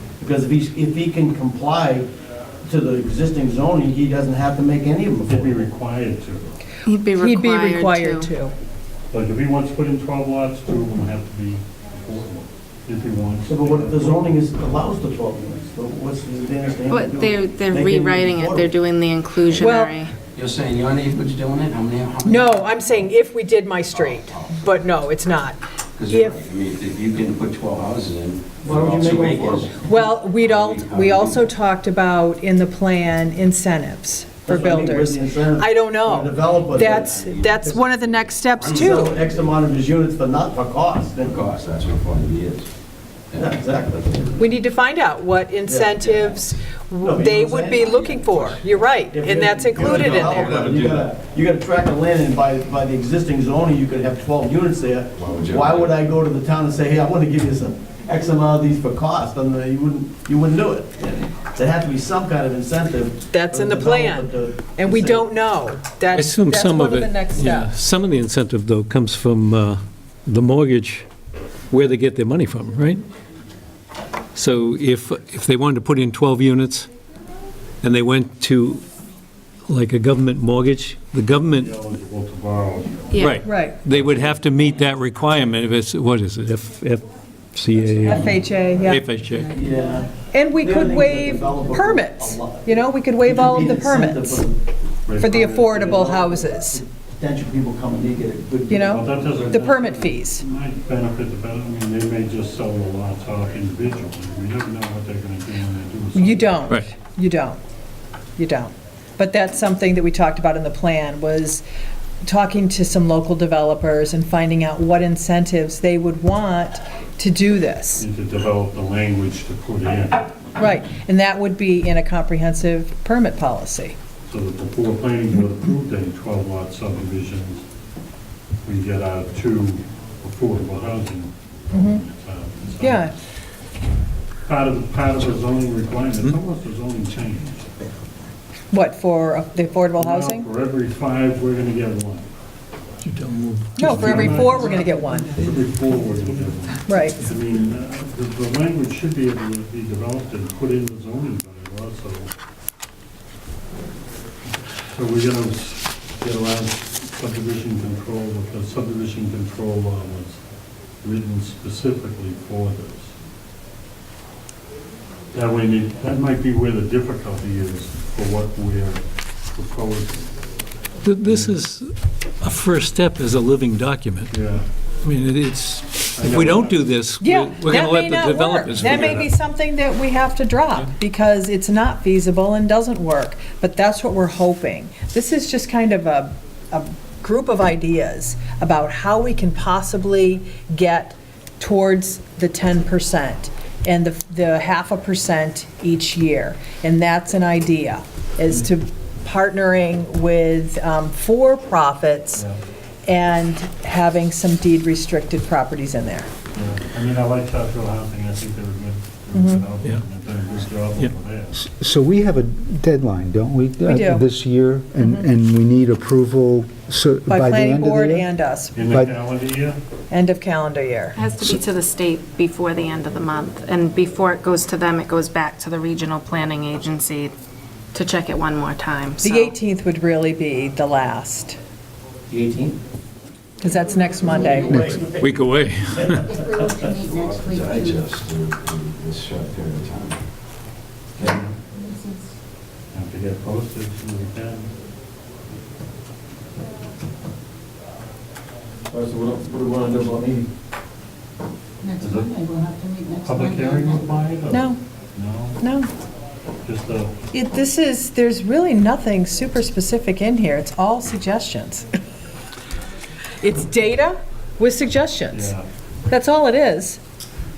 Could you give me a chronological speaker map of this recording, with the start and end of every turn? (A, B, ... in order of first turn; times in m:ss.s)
0:00.2-0:02.1 A
0:02.6-0:05.6 A
0:05.3-0:06.6 B
0:06.8-0:08.3 C
0:07.1-0:08.5 D
0:09.1-0:14.3 B
0:13.5-0:18.7 A
0:16.9-0:20.1 C
0:19.5-0:20.0 D
0:20.3-0:23.0 E
0:22.2-0:26.4 D
0:23.9-0:24.7 E
0:26.0-0:31.5 E
0:28.6-0:29.8 A
0:29.8-0:39.1 D
0:34.4-0:37.8 A
0:36.6-0:37.9 E
0:38.6-0:41.5 A
0:38.6-0:39.6 E
0:41.2-0:42.7 E
0:43.3-0:44.6 E
0:43.4-0:44.3 A
0:44.4-0:50.7 D
0:45.6-0:46.4 A
0:47.0-1:05.3 A
0:49.8-0:51.1 E
0:55.2-0:56.0 E
1:03.3-1:07.7 D
1:06.1-1:11.1 F
1:11.7-1:13.0 F
1:14.3-1:16.9 F
1:17.8-1:18.8 F
1:19.7-1:21.7 F
1:21.5-1:23.4 B
1:23.1-1:23.4 C
1:23.2-1:27.0 F
1:23.4-1:23.8 D
1:23.9-1:24.4 B
1:27.5-1:29.5 F
1:28.0-1:29.0 D
1:29.5-1:34.6 A
1:30.2-1:34.4 D
1:35.1-1:36.2 B
1:35.1-1:36.8 D
1:35.8-1:39.5 A
1:38.7-1:40.4 D
1:38.9-1:46.6 B
1:46.1-1:47.6 D
1:48.4-1:51.6 D
1:52.2-1:58.0 D
1:58.0-2:00.2 B
2:00.6-2:04.0 D
2:04.3-2:07.6 B
2:08.6-2:13.1 B
2:11.7-2:12.0 D
2:12.8-2:13.1 D
2:14.5-2:17.7 B
2:18.7-2:20.5 D
2:20.0-2:22.3 B
2:23.0-2:24.8 F
2:23.8-2:25.3 D
2:23.8-2:32.3 B
2:26.8-2:27.2 D
2:34.9-2:40.4 B
2:41.0-2:43.1 B
2:45.3-2:50.3 B
2:51.0-2:54.4 F
2:51.2-2:51.6 B
2:54.3-2:54.6 B
2:55.0-2:59.3 F
2:56.1-2:56.8 B
2:57.2-3:22.4 D
2:58.9-2:59.2 B
3:23.0-3:26.3 D
3:26.5-3:31.6 B
3:29.3-3:29.7 D
3:31.5-3:38.3 G
3:33.8-3:34.3 D
3:37.3-3:38.8 D
3:38.7-3:39.8 B
3:38.9-3:39.1 G
3:40.1-3:41.2 D
3:41.1-3:47.3 C
3:47.9-3:49.6 C
3:49.2-3:51.6 D
3:52.3-3:52.8 A
3:53.6-3:55.0 D
3:53.8-3:55.1 H
3:54.3-3:55.3 A
3:54.7-3:55.0 G
3:55.2-3:56.4 F
3:56.0-3:56.9 A
3:56.3-3:58.0 H
3:57.0-4:00.2 E
4:01.2-4:01.6 B
4:01.6-4:02.3 H
4:02.9-4:04.7 B
4:08.9-4:10.5 A
4:11.8-4:14.1 H
4:12.0-4:12.5 B
4:13.2-4:15.6 B
4:14.5-4:14.8 D
4:15.6-4:15.9 D
4:16.6-4:17.1 B
4:17.3-4:21.9 D
4:23.4-4:25.5 D
4:25.3-4:25.6 B
4:26.1-4:27.0 D